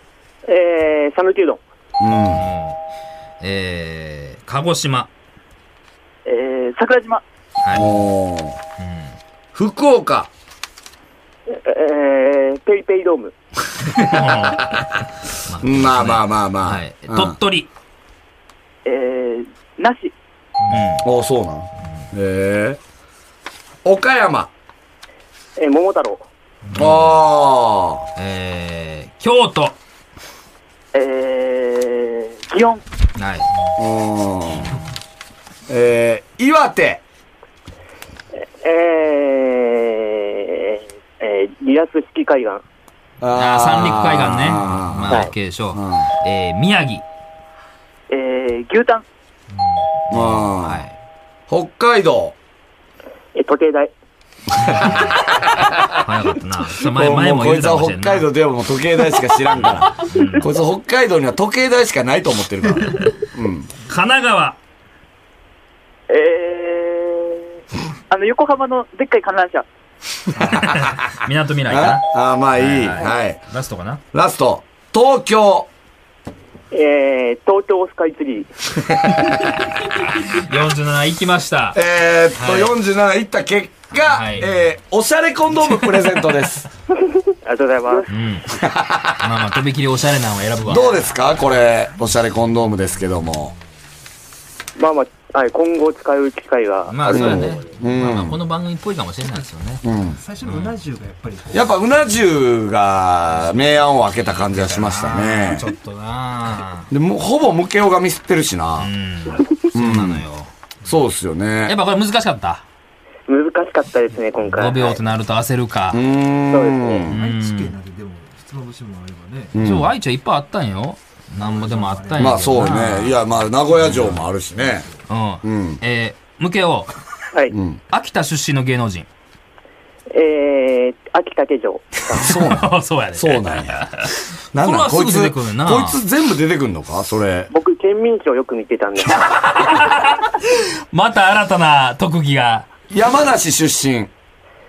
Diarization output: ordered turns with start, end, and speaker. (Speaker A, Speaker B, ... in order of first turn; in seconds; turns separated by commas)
Speaker A: 0.5-1.6, Speaker B: 2.0-2.5, Speaker C: 2.3-2.8, Speaker C: 3.4-5.1, Speaker D: 6.2-7.2, Speaker C: 7.6-7.9, Speaker B: 7.7-8.6, Speaker C: 8.8-9.2, Speaker B: 9.5-10.3, Speaker A: 11.5-13.3, Speaker C: 13.9-14.8, Speaker C: 15.4-17.7, Speaker B: 15.6-17.4, Speaker D: 18.8-20.1, Speaker C: 20.7-21.0, Speaker B: 21.0-22.8, Speaker B: 23.8-24.5, Speaker A: 25.6-26.3, Speaker C: 26.7-27.2, Speaker B: 26.7-28.0, Speaker C: 28.2-29.8, Speaker D: 30.9-32.8, Speaker C: 33.1-33.5, Speaker B: 33.8-34.8, Speaker B: 35.7-37.0, Speaker A: 38.4-42.6, Speaker B: 43.2-46.1, Speaker C: 43.3-47.0, Speaker D: 48.1-49.0, Speaker C: 50.1-50.9, Speaker B: 50.1-50.9, Speaker B: 51.5-52.4, Speaker A: 53.3-53.9, Speaker C: 54.7-55.2, Speaker C: 55.9-58.3, Speaker B: 56.8-63.7, Speaker C: 59.5-60.5, Speaker C: 63.8-64.6, Speaker D: 66.1-67.4, Speaker D: 68.1-69.7, Speaker B: 70.3-70.9, Speaker C: 70.5-72.0, Speaker B: 71.7-73.4, Speaker C: 72.5-74.0, Speaker B: 74.1-75.7, Speaker A: 76.7-78.5, Speaker B: 78.9-79.4, Speaker C: 80.1-81.8, Speaker B: 81.7-86.7, Speaker C: 82.4-82.7, Speaker C: 83.9-84.5, Speaker A: 87.1-88.1, Speaker D: 87.9-88.1, Speaker C: 88.1-88.5, Speaker B: 88.5-89.4, Speaker C: 89.2-91.2, Speaker B: 90.6-93.5, Speaker A: 94.8-97.4, Speaker C: 96.9-99.8, Speaker B: 97.1-98.4, Speaker B: 99.8-100.2, Speaker E: 100.1-101.6, Speaker C: 100.4-100.8, Speaker B: 101.5-105.7, Speaker C: 104.1-106.9, Speaker B: 106.9-108.9, Speaker C: 108.8-110.5, Speaker B: 109.7-110.2, Speaker B: 110.8-111.8, Speaker C: 111.7-112.6, Speaker A: 113.3-115.0, Speaker C: 114.4-116.0, Speaker B: 115.9-117.2, Speaker A: 116.5-117.1, Speaker C: 117.1-117.7, Speaker E: 117.1-119.6, Speaker B: 119.5-119.9, Speaker C: 119.6-123.2, Speaker E: 121.3-122.8, Speaker B: 122.2-124.8, Speaker C: 123.8-124.2, Speaker C: 125.1-126.9, Speaker B: 125.4-125.8, Speaker B: 127.5-127.8, Speaker C: 127.9-129.1, Speaker A: 130.1-132.3, Speaker C: 132.1-136.0, Speaker B: 132.2-137.5, Speaker A: 137.5-139.8, Speaker C: 139.1-142.7, Speaker B: 142.9-144.1